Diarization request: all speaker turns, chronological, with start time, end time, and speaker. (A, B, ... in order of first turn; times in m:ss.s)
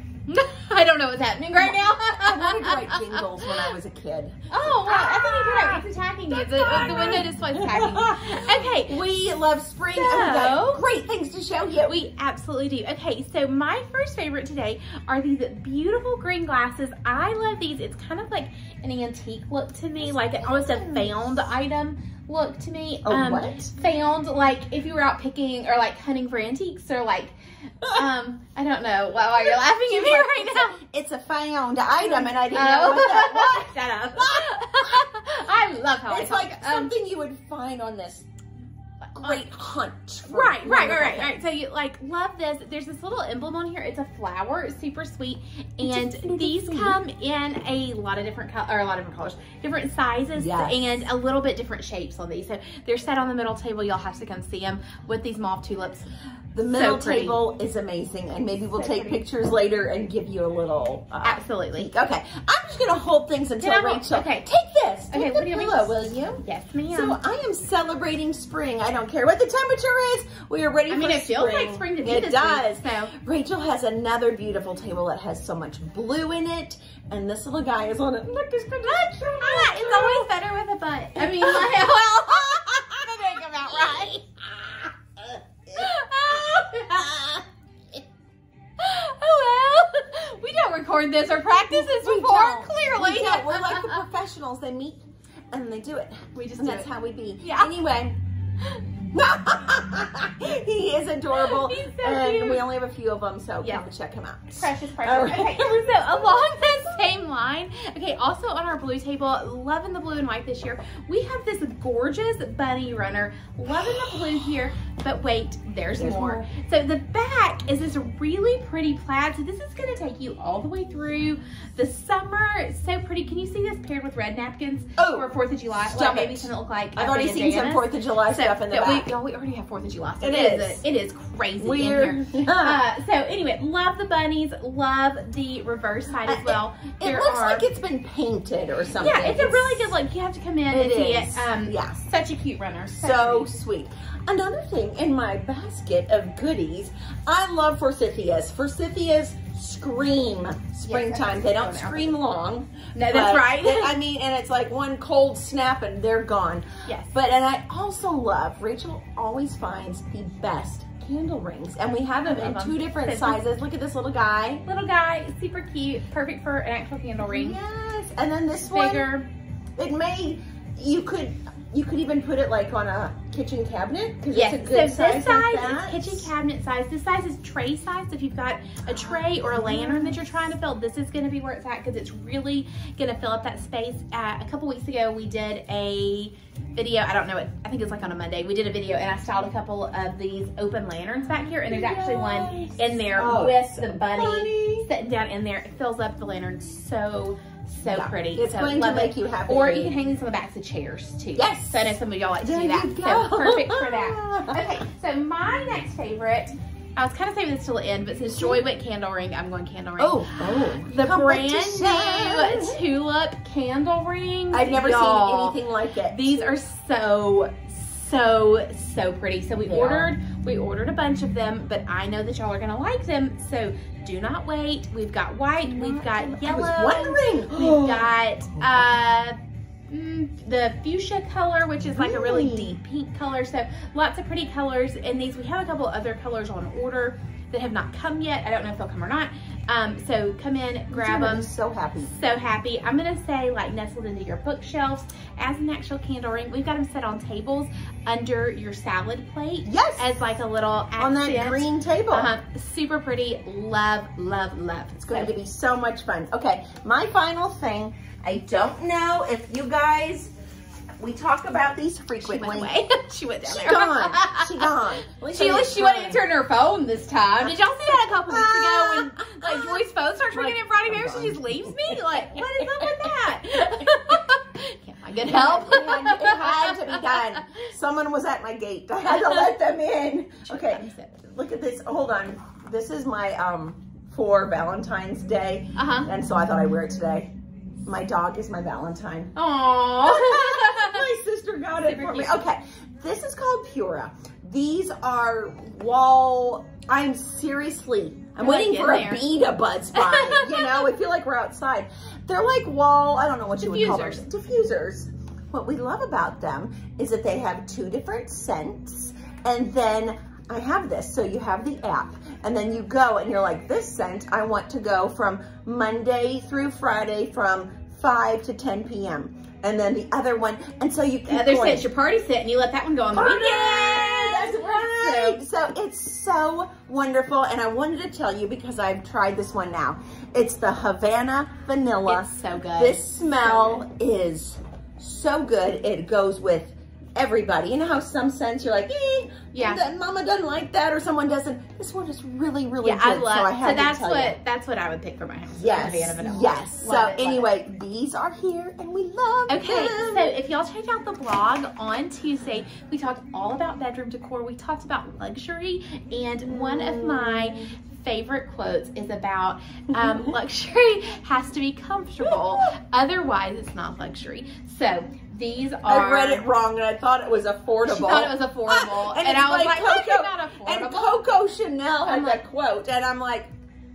0:00.3-0:03.7 A
0:01.5-0:12.0 B
0:04.5-0:09.0 A
0:09.9-0:10.8 A
0:11.8-0:30.8 A
0:20.0-0:21.5 B
0:23.0-0:23.7 B
0:29.3-0:35.0 B
0:32.0-0:37.0 A
0:36.1-0:38.3 B
0:39.1-0:39.4 A
0:39.2-0:41.3 B
0:40.2-0:56.0 A
0:45.8-0:47.0 B
0:50.4-0:51.0 B
0:56.5-1:20.3 B
0:56.7-0:57.4 A
0:58.7-0:59.2 A
1:01.2-1:01.9 A
1:03.6-1:04.5 A
1:05.1-1:07.2 A
1:10.9-1:13.1 A
1:18.8-1:24.2 A
1:21.2-1:21.9 B
1:22.7-1:27.4 B
1:25.7-1:27.4 A
1:28.8-1:34.0 A
1:31.5-1:38.2 B
1:36.3-1:36.9 A
1:37.4-1:37.7 A
1:39.1-1:46.7 B
1:41.3-1:42.6 A
1:44.6-2:17.6 A
1:53.8-1:54.2 B
1:56.0-1:56.5 B
2:05.0-2:09.1 B
2:10.2-2:10.8 B
2:11.6-2:12.8 B
2:16.2-2:19.9 B
2:19.0-2:23.6 A
2:20.7-2:22.0 B
2:23.0-2:44.6 B
2:30.9-2:32.1 A
2:32.9-2:33.9 A
2:36.8-2:37.1 A
2:42.2-2:43.4 A
2:44.6-2:47.6 A
2:47.2-2:49.1 B
2:48.6-2:49.3 A
2:49.8-2:56.3 B
2:54.3-3:35.6 A
2:58.8-3:00.2 B
3:11.2-3:14.9 B
3:17.9-3:19.9 B
3:21.4-3:24.8 B
3:28.3-3:28.6 B
3:30.0-3:32.8 B
3:34.5-3:36.6 B
3:36.1-3:49.4 A
3:39.7-3:40.1 B
3:45.6-3:48.1 B
3:49.9-4:01.5 A
3:51.8-3:52.8 B
4:00.9-4:02.1 B
4:02.0-4:15.3 A
4:09.6-4:10.2 B
4:11.0-4:12.3 B
4:15.0-4:20.3 B
4:21.0-4:22.7 B
4:22.2-4:37.6 A
4:23.4-4:26.2 B
4:27.4-4:33.1 B
4:35.2-4:47.3 B
4:39.1-4:39.4 A
4:40.4-4:41.2 A
4:45.8-4:46.1 A
4:47.8-4:49.3 B
4:49.4-4:51.0 A
4:50.0-5:21.9 B
4:51.8-4:52.4 A
4:58.4-4:59.2 A
4:59.9-5:00.9 A
5:03.6-5:04.3 A
5:21.3-5:25.4 A
5:23.1-5:44.4 B
5:32.0-5:33.8 A
5:39.5-5:39.8 A
5:42.8-5:47.5 A
5:45.5-5:50.4 B
5:49.5-6:06.4 A
5:56.4-5:57.7 B
5:59.9-6:00.3 B
6:02.2-6:02.7 B
6:05.8-6:13.5 B
6:07.8-6:11.2 A
6:12.0-6:12.4 A